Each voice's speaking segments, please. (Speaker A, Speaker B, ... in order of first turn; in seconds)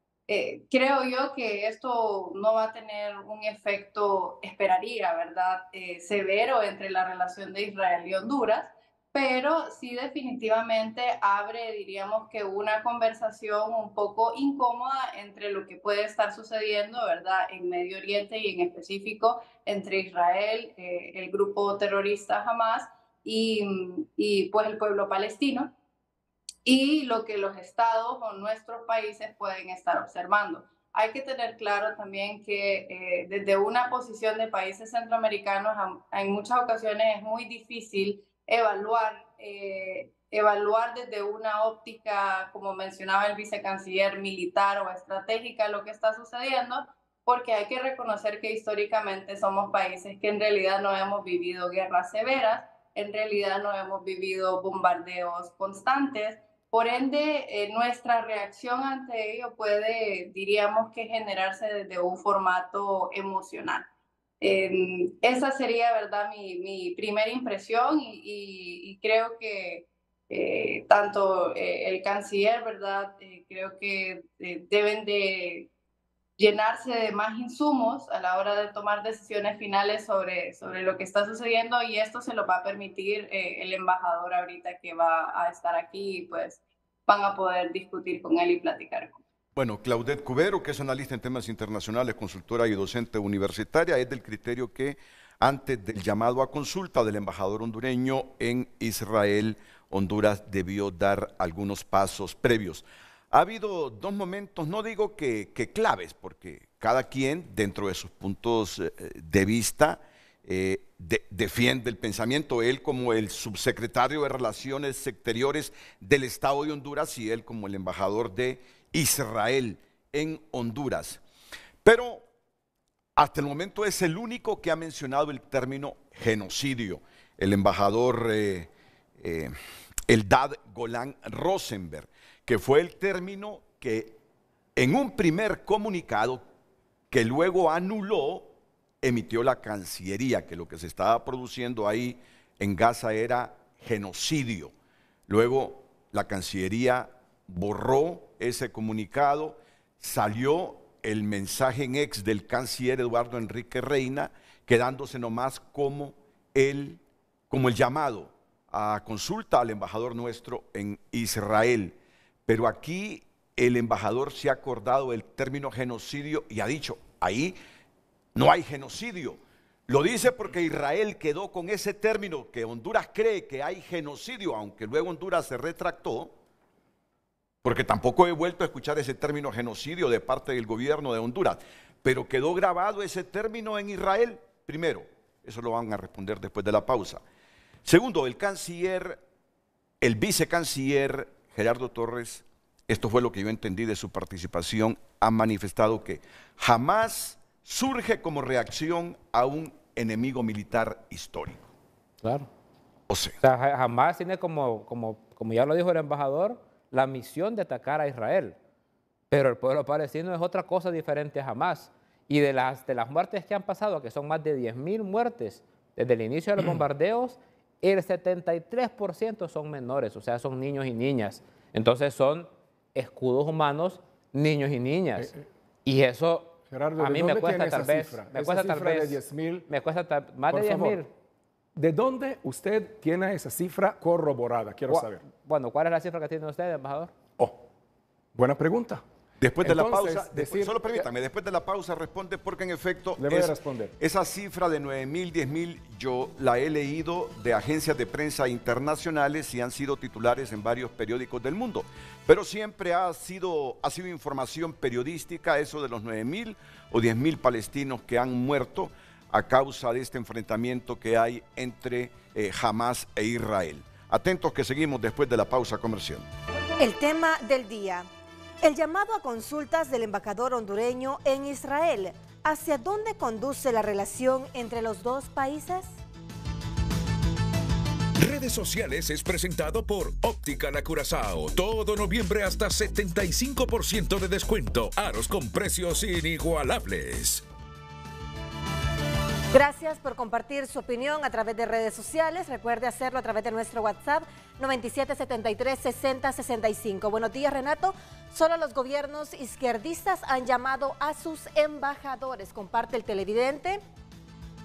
Speaker A: 0.3-25.7, 26.6-63.9, 64.4-75.7, 76.4-89.2
Speaker B: 89.6-121.2, 121.8-122.3, 123.2-129.5, 130.1-134.2, 134.8-136.4, 137.1-144.7, 145.3-161.9, 162.5-167.6, 168.3-176.3, 177.6-187.2, 187.8-189.2, 190.0-201.7, 203.1-203.4, 239.4-266.3
Speaker C: 202.2-202.5, 203.4-208.6, 209.3-231.1, 234.9-237.1
Speaker D: 226.7-229.7, 230.5-231.0, 231.8-235.2, 238.3-239.0, 239.6-241.1, 243.2-243.9
Speaker E: 266.8-268.1, 268.6-275.9, 289.5-303.8
Speaker F: 278.2-287.4